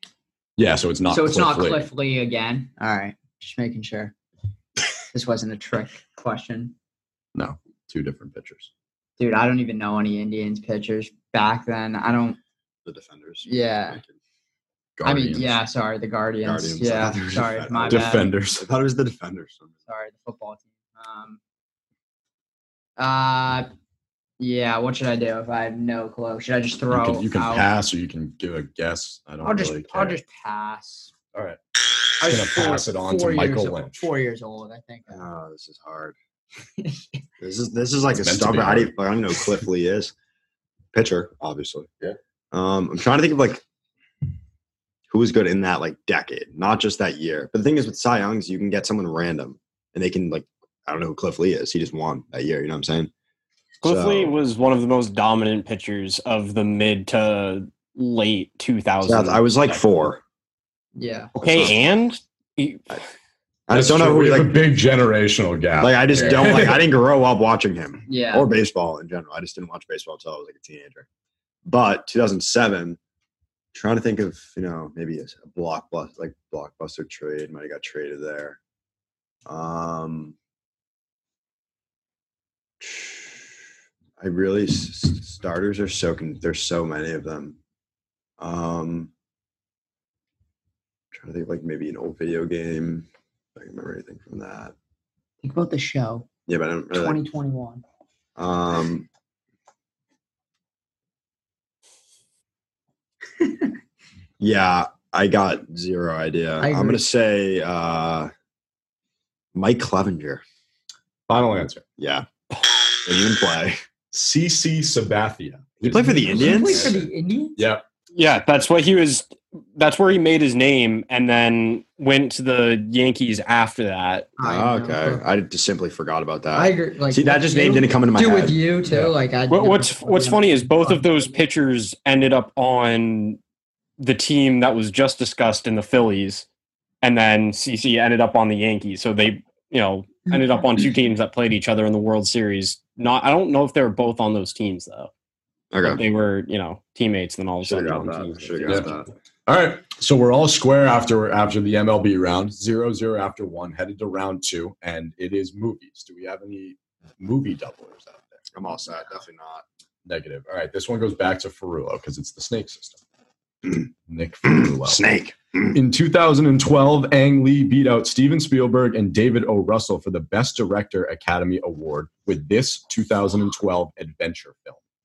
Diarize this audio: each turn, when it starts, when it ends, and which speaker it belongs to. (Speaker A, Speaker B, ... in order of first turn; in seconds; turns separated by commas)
Speaker A: 0.6-1.9, Speaker B: 1.1-4.1, Speaker B: 5.1-6.7, Speaker A: 7.3-8.7, Speaker B: 9.2-12.4, Speaker C: 12.8-14.1, Speaker B: 13.4-14.0, Speaker A: 15.0-15.6, Speaker B: 15.0-18.3, Speaker C: 16.4-19.7, Speaker A: 17.9-18.6, Speaker B: 19.9-21.4, Speaker B: 23.0-23.7, Speaker B: 24.4-27.6, Speaker A: 26.9-30.2, Speaker B: 29.4-31.1, Speaker B: 32.2-35.2, Speaker A: 32.2-34.1, Speaker C: 35.1-36.1, Speaker B: 36.8-37.2, Speaker C: 37.4-40.1, Speaker A: 38.2-38.9, Speaker C: 40.9-43.6, Speaker C: 45.1-53.1, Speaker D: 53.8-59.8, Speaker C: 53.8-54.3, Speaker C: 59.0-60.2, Speaker B: 61.0-61.3, Speaker C: 61.4-61.8, Speaker D: 61.4-63.0, Speaker C: 63.7-64.6, Speaker A: 63.7-66.8, Speaker C: 65.8-71.1, Speaker B: 68.1-68.5, Speaker C: 71.7-73.0, Speaker C: 73.7-78.6, Speaker C: 79.5-80.3, Speaker C: 82.8-83.6, Speaker C: 84.2-87.6, Speaker C: 88.4-89.1, Speaker C: 91.1-94.7, Speaker B: 95.4-96.3, Speaker C: 96.5-97.2, Speaker B: 96.9-97.8, Speaker C: 98.4-99.1, Speaker B: 103.4-103.7, Speaker C: 104.4-108.3, Speaker B: 106.6-107.0, Speaker C: 109.5-110.4, Speaker A: 111.3-111.8, Speaker C: 112.0-112.3, Speaker C: 112.9-113.8, Speaker A: 114.1-117.8, Speaker C: 115.8-116.9, Speaker B: 116.1-117.6, Speaker D: 118.1-124.3, Speaker B: 124.4-125.2, Speaker C: 124.4-128.6, Speaker B: 126.5-131.3, Speaker A: 128.8-129.1, Speaker D: 129.5-133.4, Speaker D: 134.0-136.4, Speaker D: 137.0-145.1, Speaker C: 145.7-146.0, Speaker D: 145.8-149.0, Speaker C: 147.6-149.1, Speaker A: 149.5-158.4, Speaker C: 158.5-159.6, Speaker A: 160.1-163.0, Speaker A: 164.1-165.1, Speaker C: 164.4-165.8, Speaker A: 165.7-174.8